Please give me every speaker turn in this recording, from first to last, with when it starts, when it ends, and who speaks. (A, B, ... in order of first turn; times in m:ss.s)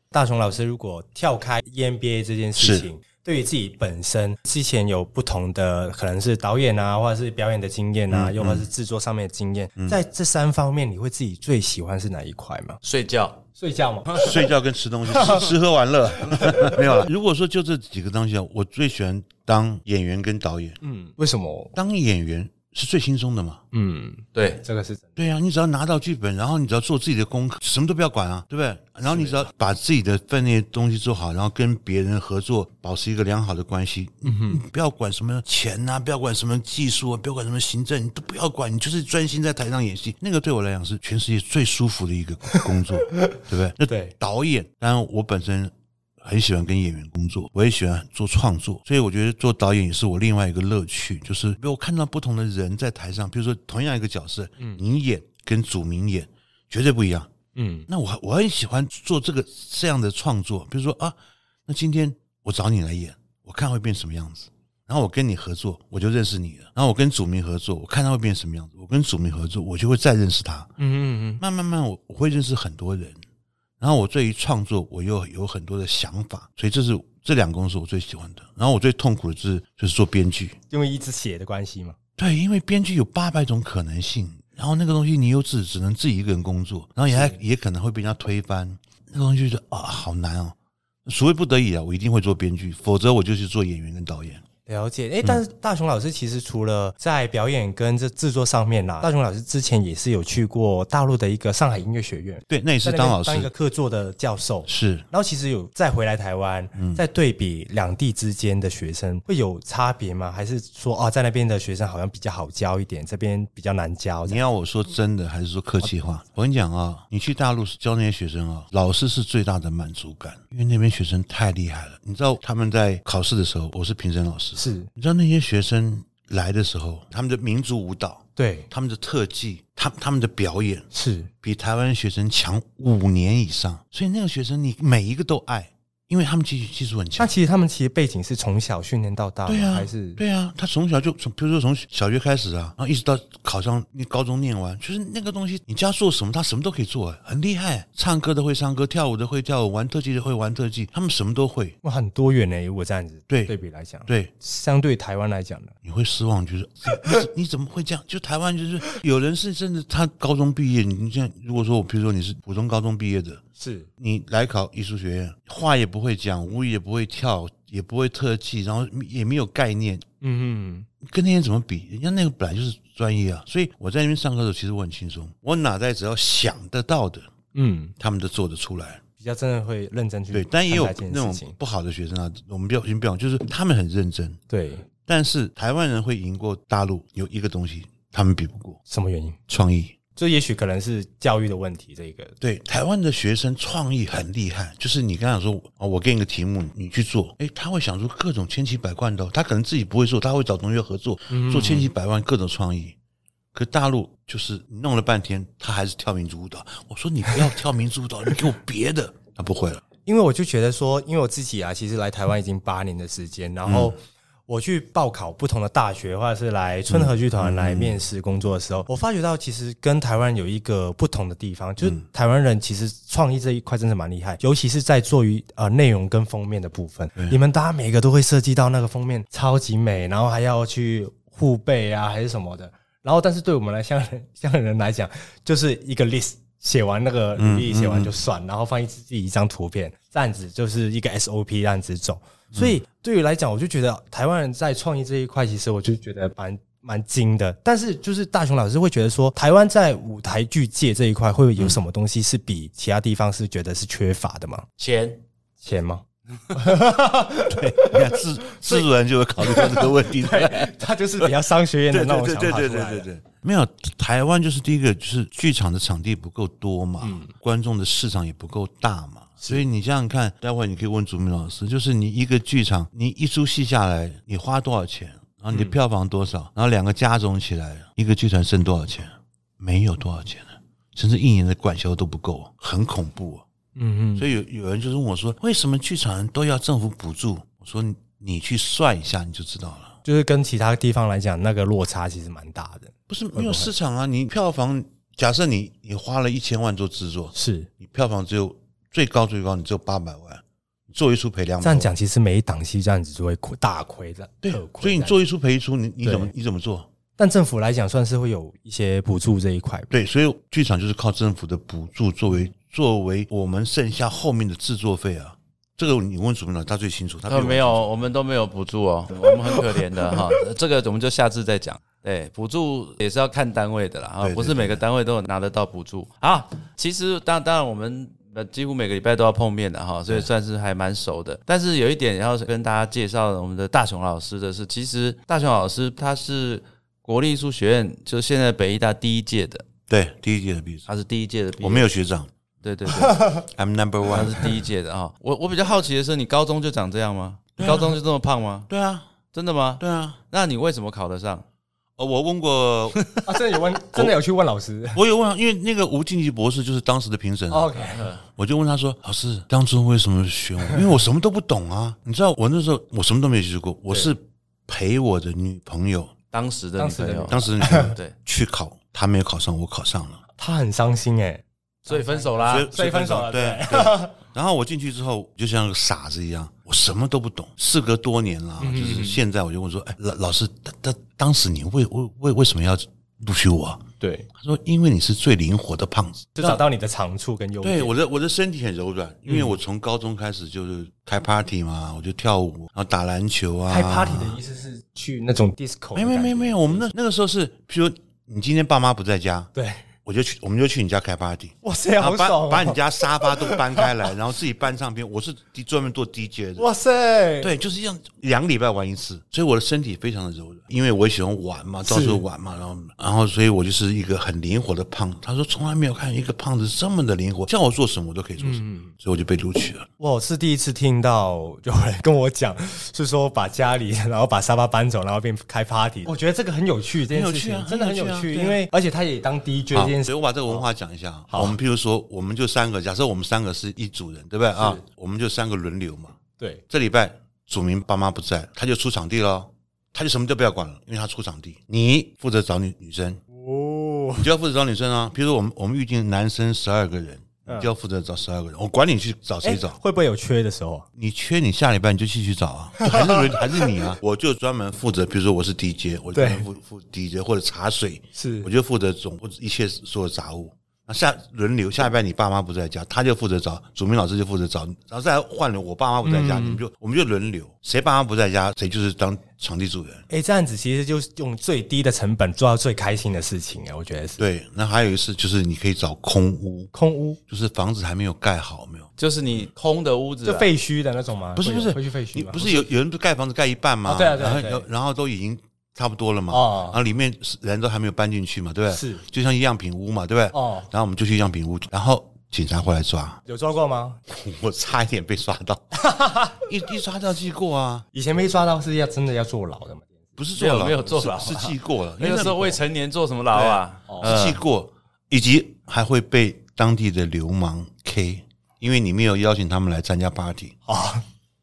0:00.1-0:12.8 A
0:02.6-0:02.9 B
0:08.1-0:08.7 B
0:12.8-0:13.4 C
0:13.6-0:14.5 A
0:14.2-0:20.8 B
0:15.1-0:15.5 A
0:16.3-0:16.8 A
0:20.8-0:21.7 A
0:21.8-0:23.6 B
0:23.7-0:25.1 A
0:24.4-0:24.6 C
0:25.2-0:57.3 B
0:29.1-0:29.4 A
0:34.2-0:34.6 A
0:43.2-0:44.1 A
0:57.6-0:57.9 A
0:57.9-1:10.7 B
1:10.8-1:11.4 A
1:11.4-1:13.2 B
1:13.8-1:20.6 B
1:20.7-1:22.0 A
1:22.2-1:34.4 B
1:27.1-1:27.4 A
1:34.7-1:54.4 A
1:42.5-1:43.5 B
1:44.7-1:45.1 B
1:46.8-1:47.0 B
1:54.2-2:10.9 B
2:04.6-2:04.9 A
2:08.4-2:08.7 A
2:10.9-2:11.3 A
2:11.4-2:17.3 B
2:17.2-2:20.2 A
2:19.5-2:31.8 B
2:31.8-2:35.8 A
2:33.3-2:33.5 B
2:34.1-2:34.3 B
2:35.8-2:43.4 B
2:43.6-2:43.9 A
2:44.0-2:50.0 B
2:50.2-2:50.9 A
2:51.0-2:57.3 B
2:57.5-2:58.0 A
2:58.0-2:59.0 B
2:59.2-3:01.6 A
3:00.3-3:04.4 B
3:04.5-3:04.8 A
3:05.1-3:08.8 B
3:08.9-3:09.4 A
3:09.5-3:10.0 B
3:10.2-3:12.4 A
3:12.4-3:23.0 B
3:21.3-3:21.9 A
3:23.5-3:29.8 B
3:30.0-4:14.7 A
3:33.6-3:34.0 B
3:36.9-3:38.0 B
3:57.4-3:58.2 B
4:02.5-4:02.8 B
4:14.8-4:15.2 C
4:15.6-4:18.8 A
4:17.5-4:21.3 B
4:19.4-4:23.1 A
4:21.9-4:43.4 B
4:27.0-4:27.3 A
4:43.8-4:44.3 A
4:44.2-4:50.0 B
4:50.0-4:53.7 A
4:53.1-5:01.9 B
4:57.3-4:57.7 A
5:01.6-5:05.2 A
5:04.4-5:06.9 B
5:06.0-5:06.3 A
5:07.2-5:09.9 A
5:09.9-5:17.9 B
5:17.3-5:39.6 C
5:24.2-5:24.8 B
5:39.9-5:40.9 B
5:40.9-5:41.9 C
5:41.6-5:42.3 B
5:42.6-5:43.4 C
5:43.0-5:43.4 A
5:43.5-5:44.6 B
5:44.1-5:48.7 C
5:47.6-5:48.0 B
5:48.7-5:49.1 B
5:49.3-5:51.4 C
5:49.8-5:50.2 B
5:52.0-5:53.1 B
5:53.2-5:55.0 A
5:55.0-6:06.2 B
5:57.5-5:58.2 A
5:57.9-5:58.2 C
6:06.3-6:08.2 C
6:06.8-6:07.9 A
6:07.3-6:10.2 B
6:10.4-6:14.2 A
6:11.9-6:12.7 C
6:12.4-6:26.6 B
6:18.6-6:19.2 A
6:24.0-6:24.3 A
6:26.4-6:27.9 A
6:27.6-6:34.4 B
6:29.3-6:29.5 A
6:33.7-6:36.9 A
6:36.0-6:39.5 B
6:39.6-6:39.8 A
6:40.0-6:46.7 B
6:41.6-6:44.0 A
6:46.6-6:47.5 A
6:47.4-6:59.9 B
6:51.9-6:52.2 A
6:58.4-6:58.9 A
7:00.0-7:10.6 A
7:07.1-7:08.6 B
7:09.7-7:16.2 B
7:11.3-7:11.6 A
7:14.6-7:14.8 A
7:16.7-7:23.2 B
7:23.3-7:24.3 A
7:24.2-7:29.8 B
7:29.4-7:30.9 A
7:31.0-7:50.1 B
7:32.8-7:33.8 A
7:36.1-7:36.4 A
7:38.2-7:38.5 A
7:46.0-7:46.6 A
7:50.1-7:54.2 A
7:54.2-7:56.7 B
7:56.7-7:57.2 A
7:57.3-7:58.9 B
7:59.0-8:00.5 C
8:00.2-8:02.7 A
8:01.4-8:13.2 B
8:03.9-8:04.7 A
8:06.3-8:06.8 A
8:08.7-8:09.0 A
8:10.3-8:10.7 A
8:13.3-8:14.0 A
8:14.1-8:15.8 B
8:15.8-8:16.4 A
8:16.4-8:17.9 B
8:17.9-8:20.2 A
8:20.2-8:22.6 B
8:20.4-8:24.4 C
8:23.3-8:24.1 A
8:24.0-8:30.6 B
8:30.7-8:31.0 A